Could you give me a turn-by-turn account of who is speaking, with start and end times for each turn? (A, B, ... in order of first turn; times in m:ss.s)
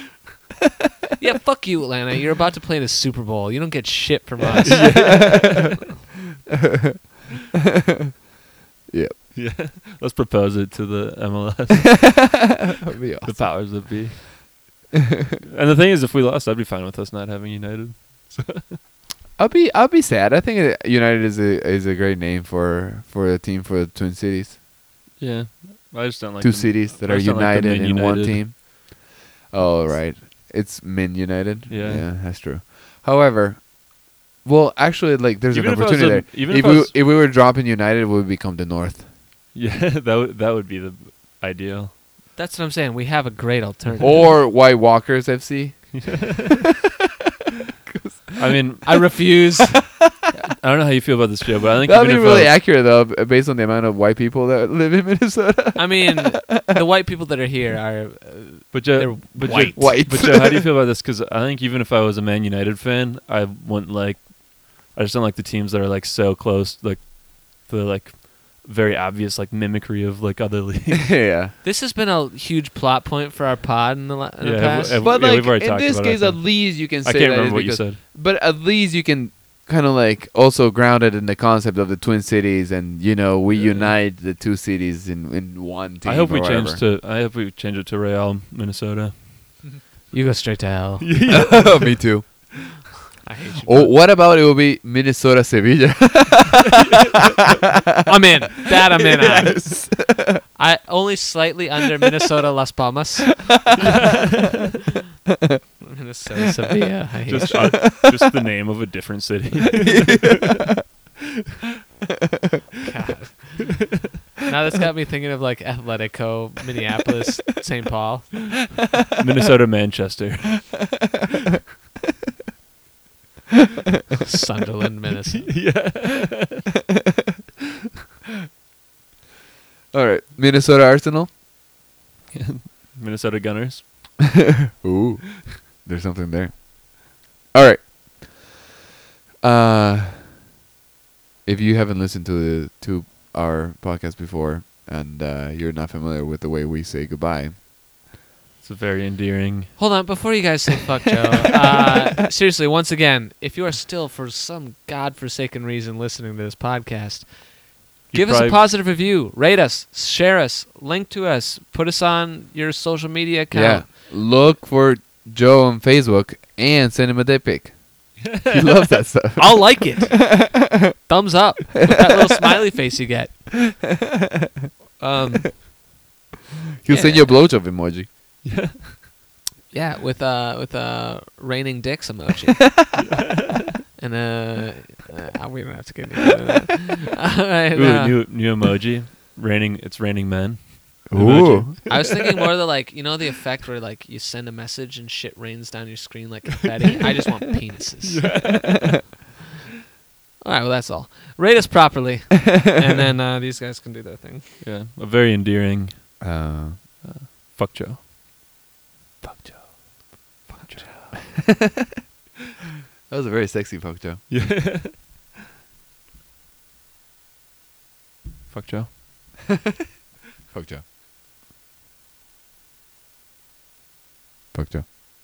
0:01.2-0:05.4 A
0:04.6-0:05.8 B
0:04.7-0:05.7 C
0:08.9-0:09.2 C
0:09.3-0:12.5 B
0:12.0-0:14.0 C
0:13.2-0:14.6 B
0:15.4-0:18.8 B
0:19.4-0:24.6 C
0:25.2-0:28.4 B
0:26.4-0:39.1 C
0:31.7-0:32.1 B
0:35.5-0:36.9 B
0:39.5-0:42.0 B
0:42.3-0:44.3 A
0:44.0-0:46.5 C
0:45.9-0:46.6 B
0:47.9-0:48.3 C
0:48.4-0:49.3 B
0:48.8-0:50.0 A
0:50.6-0:52.5 B
0:51.8-0:56.7 C
0:55.7-0:59.9 A
0:58.7-1:11.2 B
0:59.4-1:00.6 C
1:11.0-1:11.5 C
1:11.6-1:15.0 A
1:14.4-1:18.0 B
1:15.0-1:26.8 C
1:23.6-1:23.9 B
1:26.0-1:29.6 B
1:29.6-1:31.1 A
1:31.0-1:32.3 B
1:31.3-1:32.9 C
1:33.2-1:34.0 A
1:33.6-1:36.8 C
1:36.8-1:37.7 B
1:38.0-1:44.2 A
1:39.2-1:40.4 C
1:43.8-1:44.6 B
1:45.8-1:47.9 A
1:47.3-1:50.8 B
1:47.4-1:48.3 C
1:50.0-1:50.6 C
1:52.8-1:58.7 A
1:59.2-2:01.2 B
2:04.2-2:05.7 A
2:05.4-2:06.7 B
2:09.9-2:11.3 C
2:12.3-2:14.3 B
2:14.8-2:18.5 C
2:19.4-2:20.3 C
2:21.4-2:27.5 C
2:28.6-2:29.9 B
2:29.8-2:43.9 A
2:38.1-2:38.6 B
2:43.5-2:50.5 C
2:48.2-2:48.8 B
2:49.4-2:50.5 A
2:51.1-2:53.6 A
2:55.0-2:55.7 A
2:56.8-2:58.1 C
2:56.9-2:57.3 A
2:58.4-2:59.0 B
2:59.7-3:02.9 A
3:03.0-3:03.6 B
3:04.0-3:08.2 A
3:07.7-3:12.4 B
3:11.1-3:11.8 C
3:11.9-3:18.3 A
3:18.0-3:19.1 B
3:20.4-3:24.4 A
3:24.6-3:28.0 B
3:26.2-3:26.9 C
3:29.2-3:31.2 B
3:33.1-3:34.2 C
3:34.3-3:35.2 B
3:38.5-3:39.0 B
3:40.5-3:40.8 C
3:44.5-3:44.8 C